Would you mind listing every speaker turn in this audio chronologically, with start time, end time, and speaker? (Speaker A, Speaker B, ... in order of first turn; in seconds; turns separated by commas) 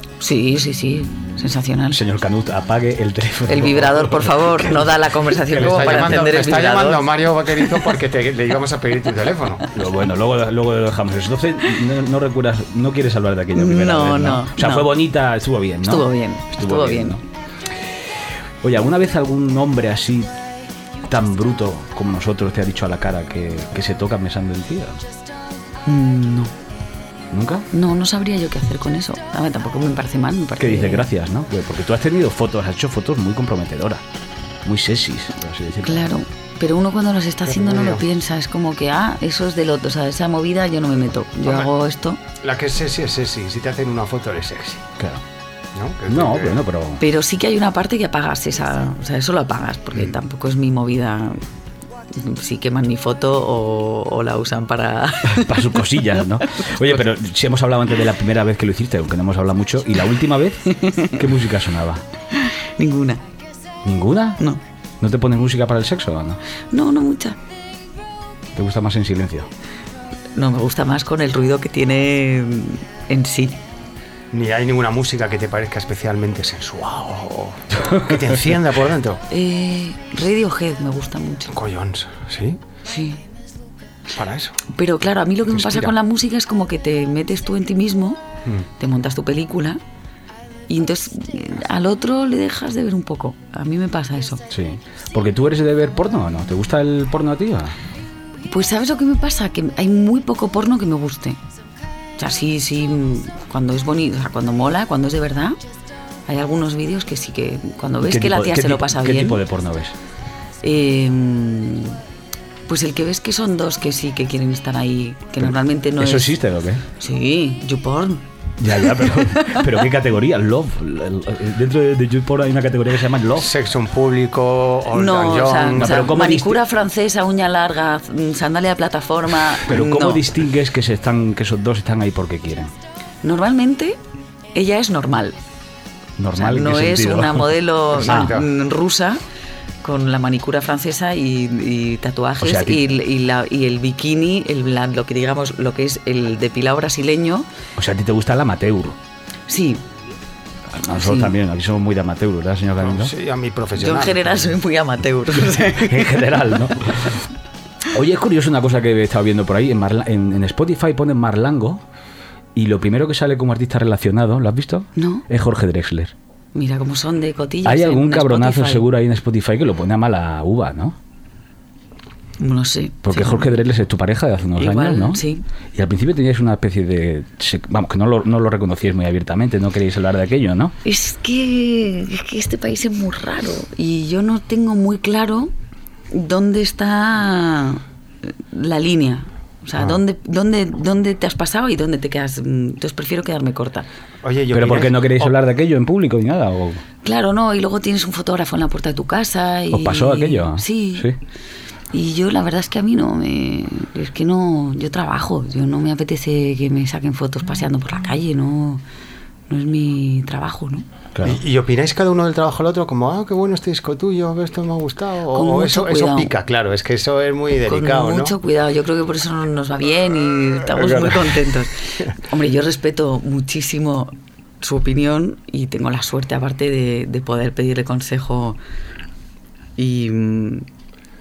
Speaker A: 0.2-2.0, Speaker B: 1.9-6.1, Speaker A: 3.5-7.1, Speaker C: 5.5-9.7, Speaker B: 9.7-17.2, Speaker A: 13.6-14.9, Speaker A: 15.9-17.2, Speaker B: 18.6-20.3, Speaker B: 21.1-25.0, Speaker A: 25.9-26.5, Speaker B: 27.3-27.7, Speaker A: 27.7-31.1, Speaker B: 30.6-34.0, Speaker B: 34.6-36.1, Speaker A: 35.8-42.2, Speaker C: 37.5-38.0, Speaker C: 41.5-41.7, Speaker C: 42.4-44.9, Speaker C: 45.8-46.6, Speaker B: 46.1-47.0, Speaker A: 47.0-51.4, Speaker A: 52.2-55.6, Speaker B: 55.3-62.0, Speaker A: 60.8-61.1, Speaker A: 62.8-63.2, Speaker B: 63.8-64.4, Speaker B: 65.0-66.4, Speaker A: 66.7-67.4, Speaker B: 68.5-69.5, Speaker A: 70.4-73.5, Speaker C: 74.3-79.2, Speaker A: 79.3-81.5, Speaker C: 81.5-82.6, Speaker A: 82.9-83.2, Speaker C: 84.1-84.6, Speaker A: 84.8-88.2, Speaker C: 85.5-85.9, Speaker A: 88.8-89.8, Speaker A: 90.7-94.4, Speaker B: 94.5-97.8, Speaker A: 98.5-101.4, Speaker A: 102.2-105.5, Speaker A: 106.3-109.4, Speaker B: 108.0-110.0, Speaker A: 110.6-112.0, Speaker A: 112.7-116.3, Speaker B: 116.0-116.8, Speaker A: 117.0-118.2, Speaker B: 118.6-123.5, Speaker A: 119.0-119.4, Speaker C: 123.4-126.1, Speaker A: 125.0-130.2, Speaker B: 125.7-126.6, Speaker B: 129.7-132.7, Speaker A: 133.2-134.0, Speaker A: 134.6-135.3, Speaker B: 136.2-138.4, Speaker A: 136.4-139.2, Speaker C: 137.9-138.5, Speaker A: 139.8-147.4, Speaker B: 142.4-142.8, Speaker B: 147.8-149.0, Speaker A: 149.5-149.8, Speaker B: 150.8-153.1, Speaker A: 151.0-151.3, Speaker C: 152.8-154.6, Speaker A: 153.8-156.1, Speaker B: 155.4-157.3, Speaker B: 157.9-161.8, Speaker B: 162.6-166.1, Speaker A: 165.0-165.2, Speaker A: 166.6-168.8, Speaker B: 167.7-171.0, Speaker A: 172.4-173.5, Speaker B: 173.0-175.2, Speaker A: 174.6-175.4, Speaker B: 175.7-180.8, Speaker A: 180.9-185.5, Speaker A: 186.1-187.8, Speaker A: 188.6-193.9, Speaker C: 194.2-195.3, Speaker B: 194.5-196.8, Speaker A: 197.1-201.0, Speaker B: 199.7-201.2, Speaker A: 201.9-208.8, Speaker A: 209.5-210.8, Speaker C: 211.2-218.4, Speaker A: 215.3-216.3, Speaker A: 217.7-221.7, Speaker A: 222.3-224.1, Speaker A: 224.6-228.6, Speaker A: 229.8-230.6